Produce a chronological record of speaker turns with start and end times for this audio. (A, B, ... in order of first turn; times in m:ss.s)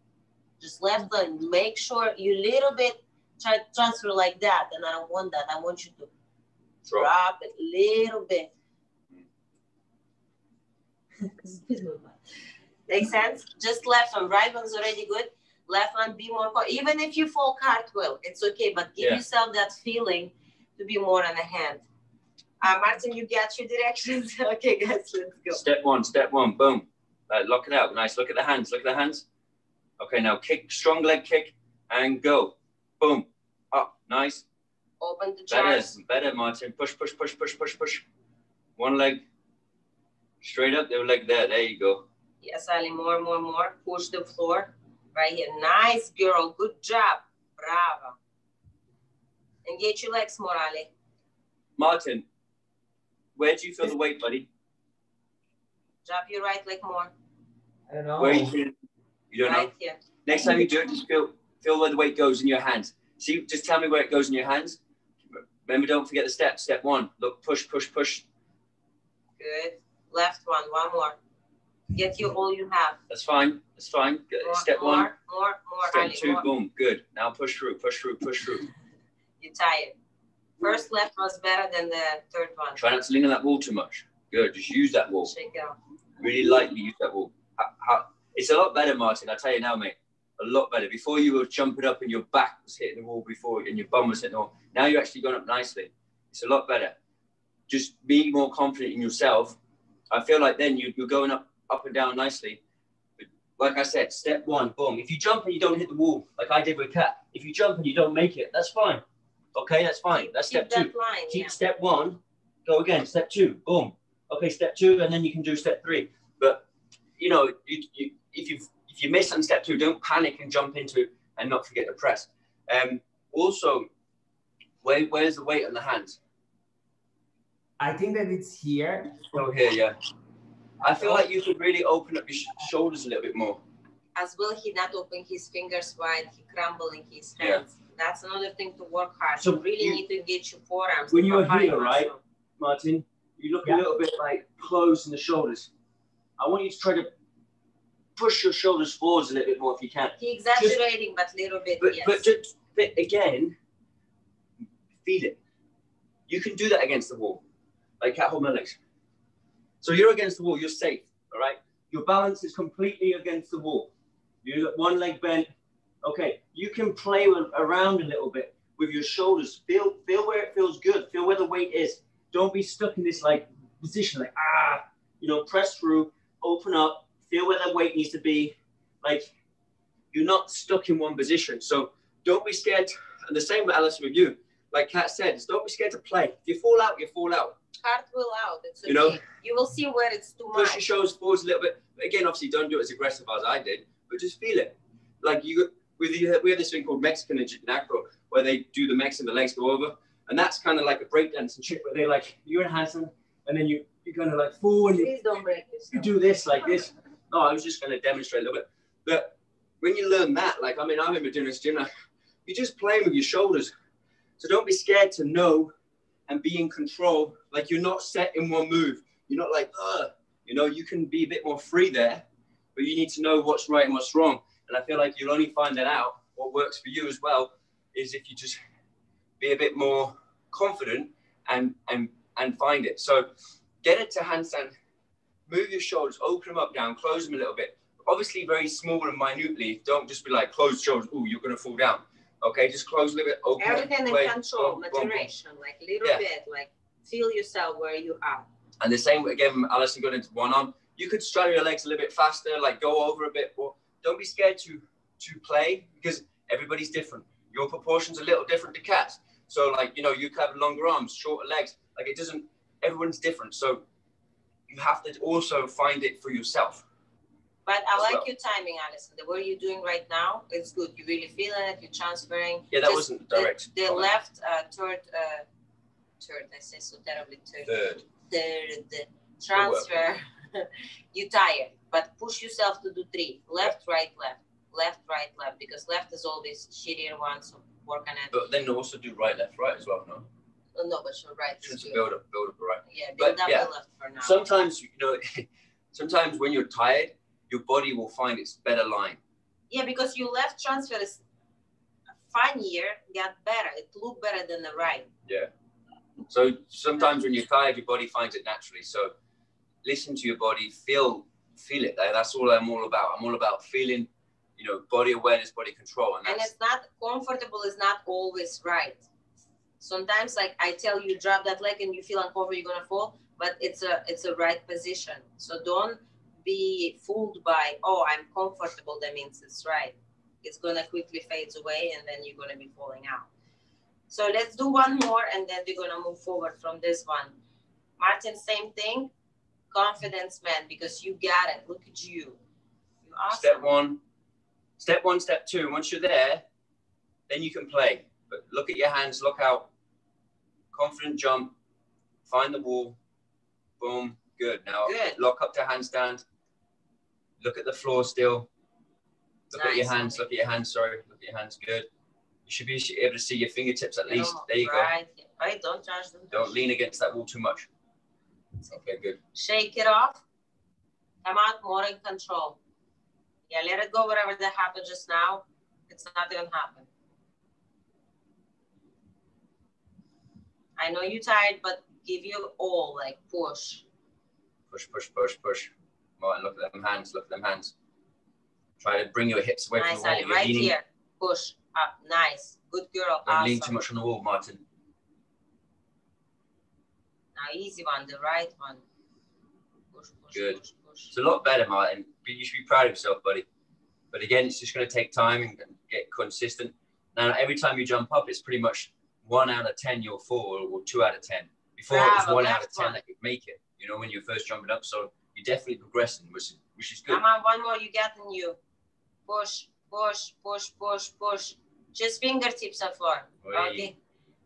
0:00.6-0:06.1 A
0:06.9-0:08.5 A
0:11.2-0:12.2 A
0:12.9-0:21.9 A
0:22.6-0:25.6 A
0:25.5-0:29.2 B
0:30.0-0:34.4 B
0:35.0-0:35.9 A
0:35.5-0:38.0 B
0:38.8-0:39.2 B
0:40.4-0:42.0 B
0:42.4-0:48.2 A
0:49.6-0:50.9 A
0:51.8-0:52.2 B
0:53.4-0:54.5 B
0:56.0-0:57.1 A
0:57.9-0:58.5 C
0:58.2-0:58.7 B
0:59.3-0:59.7 B
0:59.4-1:00.0 A
1:00.2-1:04.8 B
1:05.4-1:08.2 B
1:09.4-1:11.2 A
1:11.9-1:13.0 A
1:13.1-1:15.1 B
1:14.4-1:16.5 A
1:15.8-1:18.7 B
1:19.4-1:20.0 A
1:20.6-1:22.8 A
1:22.8-1:25.3 B
1:25.2-1:25.8 A
1:26.2-1:37.0 B
1:37.7-1:39.6 B
1:40.1-1:42.6 B
1:43.2-1:49.0 B
1:49.6-1:56.6 B
1:50.4-1:51.6 A
1:57.2-2:03.9 B
2:04.8-2:06.2 B
2:07.8-2:09.2 C
2:09.3-2:10.0 B
2:10.8-2:13.6 B
2:11.0-2:11.2 A
2:14.2-2:22.2 A
2:19.4-2:20.0 B
2:21.1-2:25.7 B
2:26.4-2:27.1 B
2:28.2-2:30.8 B
2:30.2-2:32.3 A
2:31.8-2:33.6 B
2:35.0-2:35.4 B
2:36.3-2:37.4 B
2:38.0-2:38.8 B
2:39.8-2:43.9 B
2:44.4-2:45.5 B
2:46.0-2:59.3 B
3:00.1-3:07.6 B
3:07.8-3:10.8 A
3:08.9-3:09.2 B
3:10.5-3:25.1 B
3:24.9-3:26.1 A
3:25.9-3:31.9 B
3:32.5-3:33.7 B
3:34.4-3:35.7 B
3:36.3-3:48.6 B
3:49.4-3:53.3 B
3:53.8-3:54.7 B
3:55.5-4:05.3 B
4:03.6-4:08.5 A
4:08.8-4:23.8 B
4:24.7-4:26.8 B
4:27.6-4:35.5 A
4:28.0-4:28.2 B
4:32.7-4:34.1 B
4:36.2-4:37.7 A
4:37.6-4:38.0 B
4:38.2-4:48.3 A
4:39.5-4:39.9 B
4:48.3-4:50.3 B
4:50.8-4:52.1 A
4:51.6-4:53.7 B
4:52.9-4:54.6 A
4:54.2-4:59.2 B
4:59.7-5:01.2 A
5:02.2-5:05.1 A
5:06.3-5:09.1 B
5:09.8-5:16.5 B
5:16.2-5:19.0 A
5:19.8-5:33.3 A
5:34.1-5:37.4 A
5:38.0-5:39.1 A
5:39.7-5:42.4 A
5:43.0-5:43.7 A
5:43.3-5:44.0 B
5:44.8-5:46.4 B
5:47.3-5:49.7 B
5:50.7-5:51.5 B
5:52.3-5:53.0 B
5:53.8-5:56.2 B
5:54.8-5:55.2 A
5:57.4-5:58.5 B
5:59.5-6:01.9 B
5:59.5-6:00.2 A
6:02.5-6:04.9 B
6:04.1-6:06.6 A
6:06.3-6:07.7 B
6:08.7-6:09.2 B
6:09.3-6:10.2 A
6:11.2-6:12.6 A
6:13.5-6:16.9 A
6:20.8-6:23.8 A
6:24.7-6:27.7 B
6:28.8-6:30.7 B
6:29.8-6:33.8 A
6:33.3-6:34.6 B
6:37.4-6:38.8 A
6:39.9-6:41.1 A
6:40.3-6:40.6 B
6:41.1-6:43.5 B
6:44.1-6:57.2 B
6:51.9-6:53.0 A
6:57.1-6:58.6 A
6:59.3-7:04.0 A
7:03.4-7:03.9 B